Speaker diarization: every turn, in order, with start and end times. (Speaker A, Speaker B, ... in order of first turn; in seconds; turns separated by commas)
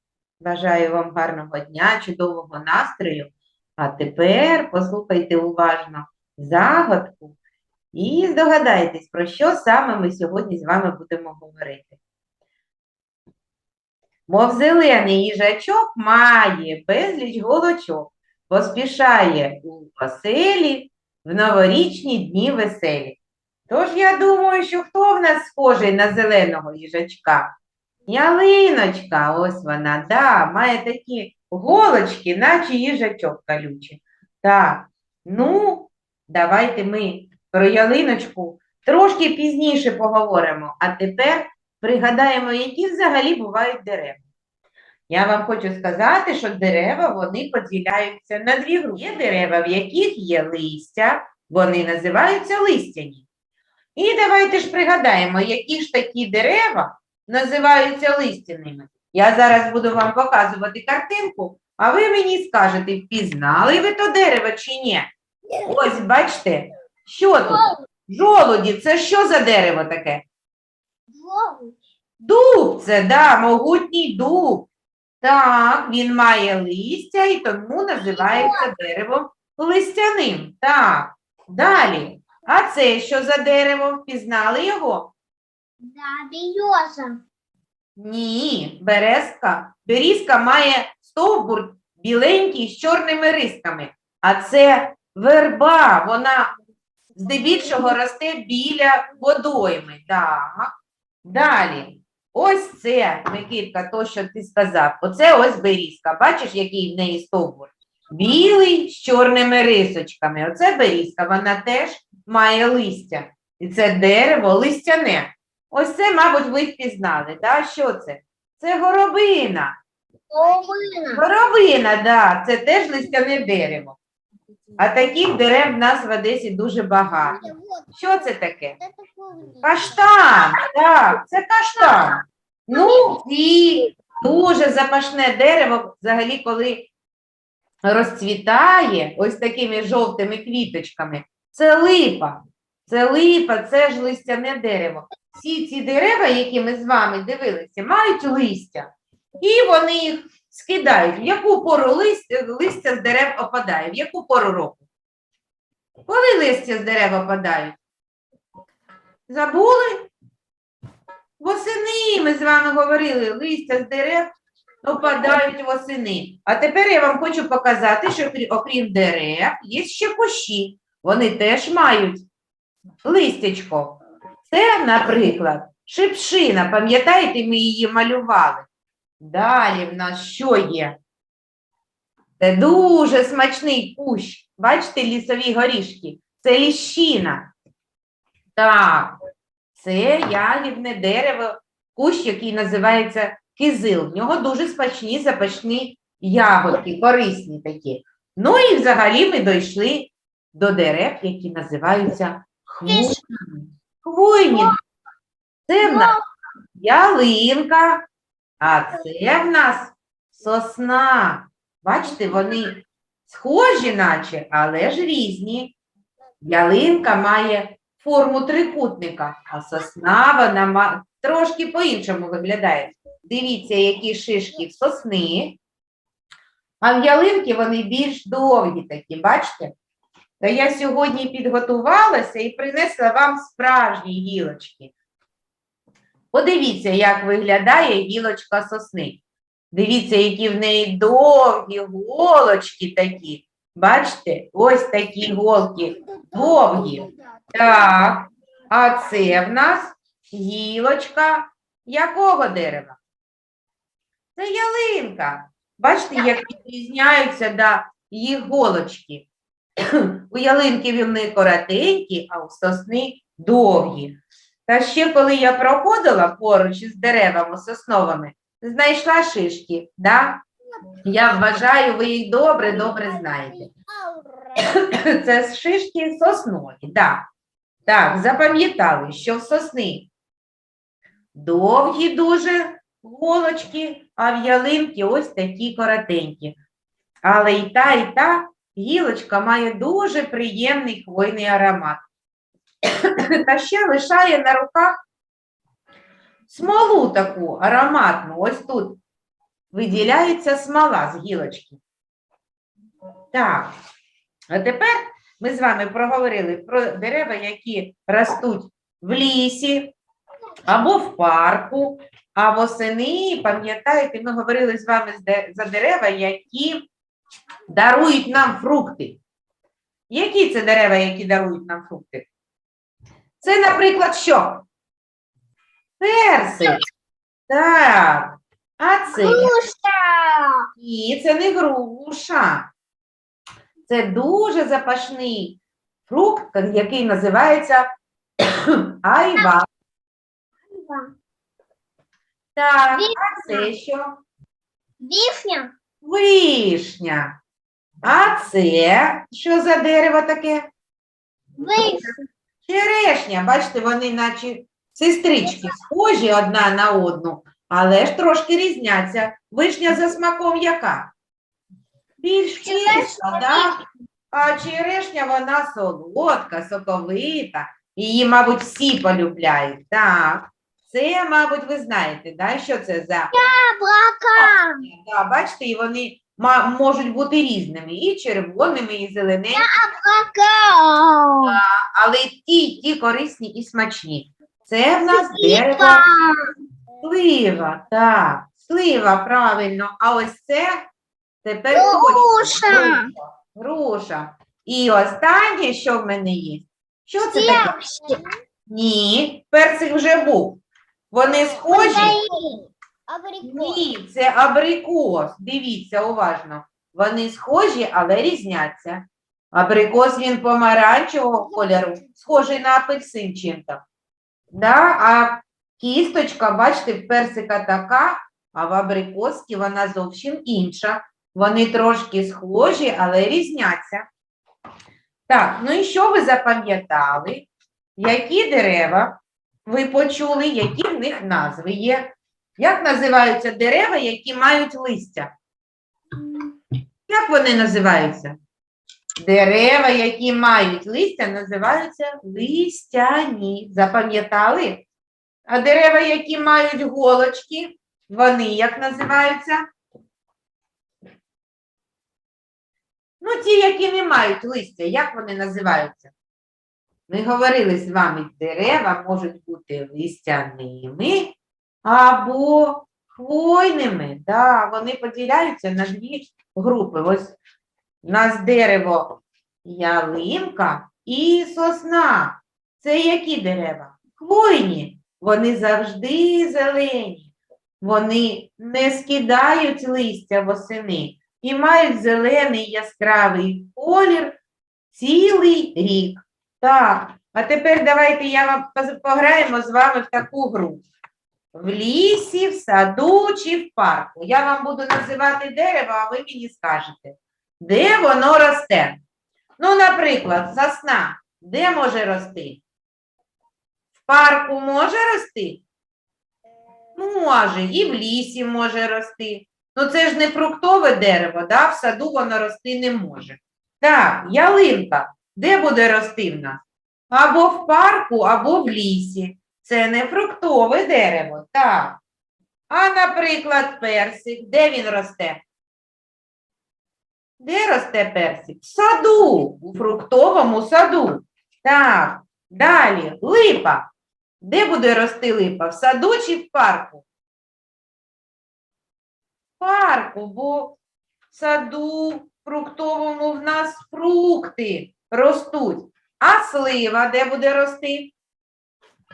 Speaker A: 0.4-7.4, Speaker A: 7.9-12.0, Speaker A: 14.3-27.6, Speaker A: 28.1-44.2, Speaker A: 45.1-53.2, Speaker A: 54.0-65.1, Speaker A: 65.6-70.2, Speaker B: 67.5-67.7, Speaker B: 71.1-71.8, Speaker A: 72.2-74.7, Speaker A: 75.2-85.1, Speaker B: 78.0-78.7, Speaker B: 85.8-87.2, Speaker A: 88.0-96.5, Speaker A: 97.1-100.7, Speaker A: 101.2-119.7, Speaker B: 120.3-121.2, Speaker A: 121.1-124.0, Speaker A: 124.8-128.8, Speaker B: 127.2-129.9, Speaker A: 129.6-136.9, Speaker B: 132.7-133.2, Speaker A: 137.8-148.9, Speaker A: 149.4-154.8, Speaker A: 156.1-157.8, Speaker A: 159.3-160.1, Speaker A: 161.4-164.3, Speaker A: 164.8-172.3, Speaker A: 173.0-178.6, Speaker A: 179.2-180.9, Speaker A: 182.4-187.5, Speaker A: 188.6-189.2, Speaker A: 189.7-204.7, Speaker B: 202.8-203.2, Speaker A: 205.7-206.1, Speaker B: 205.8-206.2, Speaker A: 206.8-208.0, Speaker A: 208.6-215.7, Speaker A: 216.4-225.6, Speaker A: 226.8-229.7, Speaker A: 230.4-234.9, Speaker A: 236.3-253.0, Speaker B: 245.9-247.9, Speaker A: 254.3-259.3, Speaker A: 259.9-270.4, Speaker A: 271.0-273.7, Speaker B: 272.6-274.6, Speaker A: 274.6-277.2, Speaker A: 277.8-280.1, Speaker A: 281.3-286.6, Speaker A: 287.2-292.0, Speaker A: 292.9-295.0, Speaker A: 296.5-299.0, Speaker A: 299.7-301.8, Speaker A: 303.3-303.7, Speaker A: 304.5-309.9, Speaker A: 310.7-316.9, Speaker A: 317.7-319.2, Speaker A: 320.1-322.3, Speaker A: 323.4-324.6, Speaker A: 326.0-326.8, Speaker A: 327.5-329.5, Speaker B: 329.1-330.7, Speaker A: 330.8-332.7, Speaker A: 333.9-337.9, Speaker A: 338.6-339.7, Speaker B: 340.7-341.1, Speaker A: 342.6-344.2, Speaker B: 342.9-343.7, Speaker B: 345.0-345.7, Speaker A: 346.0-347.3, Speaker A: 348.0-350.7, Speaker B: 351.6-352.2, Speaker A: 351.7-352.1, Speaker A: 352.7-361.1, Speaker B: 355.4-355.8, Speaker A: 362.2-363.7, Speaker B: 362.6-363.7, Speaker A: 364.3-373.3, Speaker B: 373.3-374.9, Speaker A: 374.4-379.6, Speaker B: 379.5-381.6, Speaker A: 381.4-386.0, Speaker B: 385.1-386.5, Speaker A: 387.0-390.8, Speaker A: 391.4-398.1, Speaker B: 391.7-393.1, Speaker B: 397.3-398.3, Speaker A: 398.7-402.1, Speaker B: 401.3-403.9, Speaker A: 403.4-413.8, Speaker B: 411.3-412.1, Speaker A: 414.5-424.1, Speaker A: 425.3-435.3, Speaker B: 436.2-436.5, Speaker A: 437.1-438.4, Speaker A: 439.2-444.9, Speaker A: 445.5-449.6, Speaker A: 453.2-456.1, Speaker A: 457.1-467.4, Speaker A: 468.0-484.4, Speaker A: 484.9-490.8, Speaker A: 491.5-499.0, Speaker A: 499.6-502.6, Speaker A: 504.1-505.6, Speaker A: 506.9-522.0, Speaker A: 522.7-525.4, Speaker A: 527.4-533.9, Speaker A: 534.4-537.0, Speaker A: 539.6-540.8, Speaker A: 541.3-548.1